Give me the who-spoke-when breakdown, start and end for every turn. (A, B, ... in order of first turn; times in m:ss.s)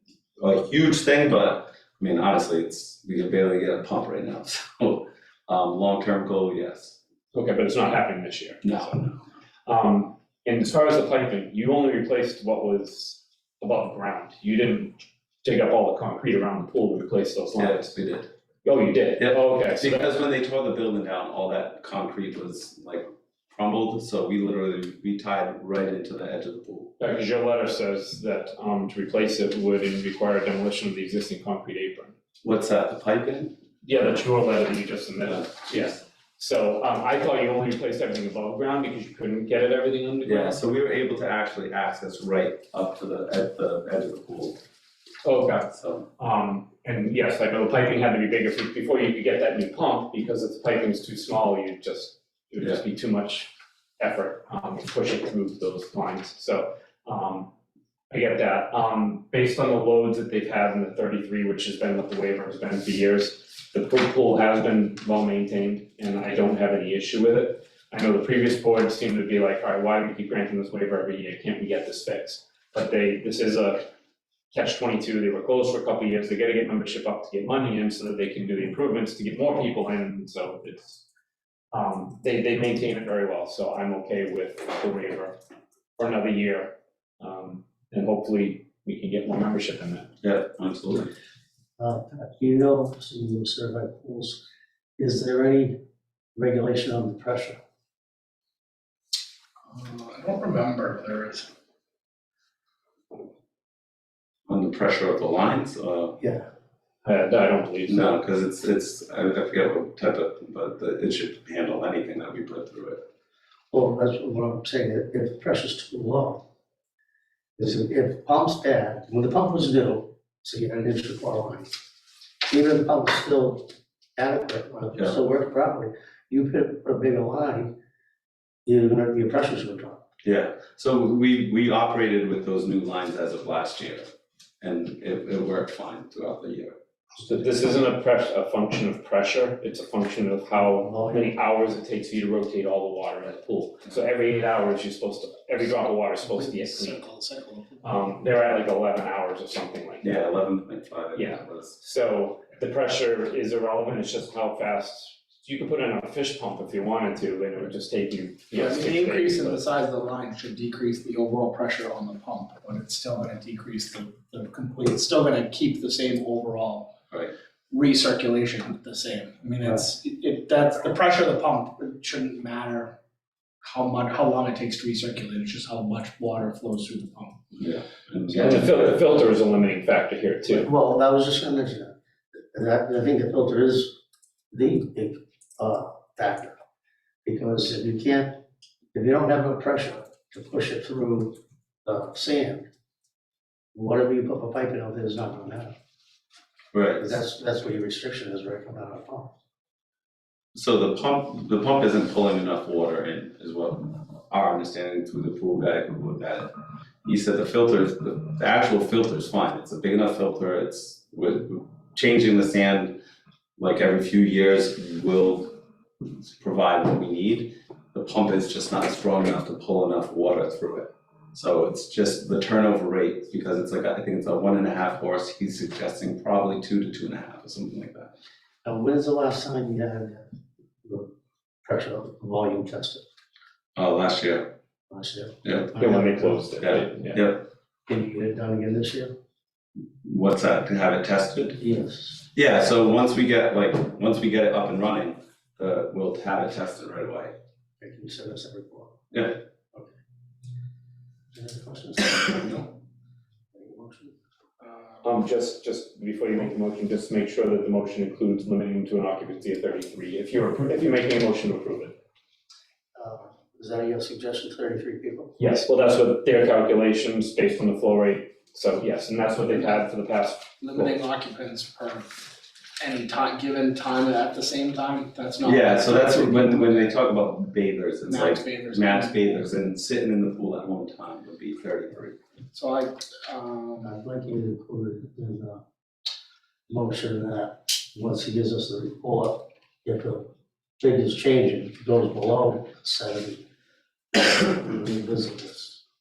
0:00.4-0:07.0 A
0:07.3-0:09.1 B
0:08.6-0:09.1 A
0:09.7-0:18.0 B
0:17.6-0:18.3 A
0:18.6-0:20.1 B
0:19.2-0:26.9 A
0:27.0-0:32.1 B
0:32.4-0:33.5 A
0:33.8-0:40.6 B
0:40.2-0:44.6 A
0:45.2-0:57.5 B
0:45.7-0:46.1 A
0:58.1-1:13.9 B
1:14.5-1:21.0 B
1:21.7-1:25.4 B
1:26.0-1:30.1 B
1:30.2-1:31.1 A
1:31.8-1:34.4 C
1:35.0-1:35.8 C
1:36.4-1:37.6 C
1:39.7-1:41.5 D
1:44.5-1:46.2 A
1:46.2-1:46.5 C
1:47.0-1:48.1 B
1:47.9-1:53.0 A
1:53.7-1:56.4 C
1:57.6-2:01.7 C
2:02.5-2:07.7 C
2:08.7-2:10.0 C
2:10.2-2:14.1 A
2:14.6-2:16.8 A
2:17.2-2:27.0 B
2:20.6-2:21.3 C
2:26.4-2:28.0 D
2:27.8-2:30.2 B
2:30.0-2:31.8 A
2:31.2-2:39.5 B
2:38.5-2:46.9 D
2:47.7-2:52.9 D
2:53.6-2:57.4 D
2:57.6-2:58.9 A
2:58.3-3:00.7 B
3:00.5-3:01.9 C
3:02.5-3:04.0 C
3:04.5-3:06.5 C
3:07.2-3:08.4 C
3:08.9-3:12.7 C
3:13.7-3:15.7 C
3:16.7-3:17.2 A
3:17.0-3:19.3 C
3:20.5-3:26.5 A
3:27.0-3:33.0 A
3:33.6-3:35.5 A
3:36.2-3:48.1 A
3:48.6-3:50.3 C
3:50.8-3:51.1 C
3:51.6-3:53.0 C
3:53.8-3:54.5 A
3:54.9-3:56.5 C
3:55.8-3:57.2 B
3:56.6-3:57.4 A
3:57.9-3:59.1 C
4:00.0-4:01.6 A
4:01.6-4:02.2 C
4:02.3-4:07.4 A
4:07.8-4:09.0 C
4:09.1-4:09.4 A
4:11.3-4:12.8 C
4:13.5-4:14.2 C
4:14.7-4:15.0 D
4:15.0-4:22.0 B
4:23.0-4:25.4 C
4:25.4-4:31.0 B
4:30.6-4:32.2 D
4:32.8-4:36.9 D
4:35.4-4:42.2 A
4:38.0-4:39.4 D
4:42.5-4:43.9 D
4:43.8-4:45.6 C
4:46.7-4:50.3 C
4:50.8-4:53.4 C
4:54.1-4:55.8 C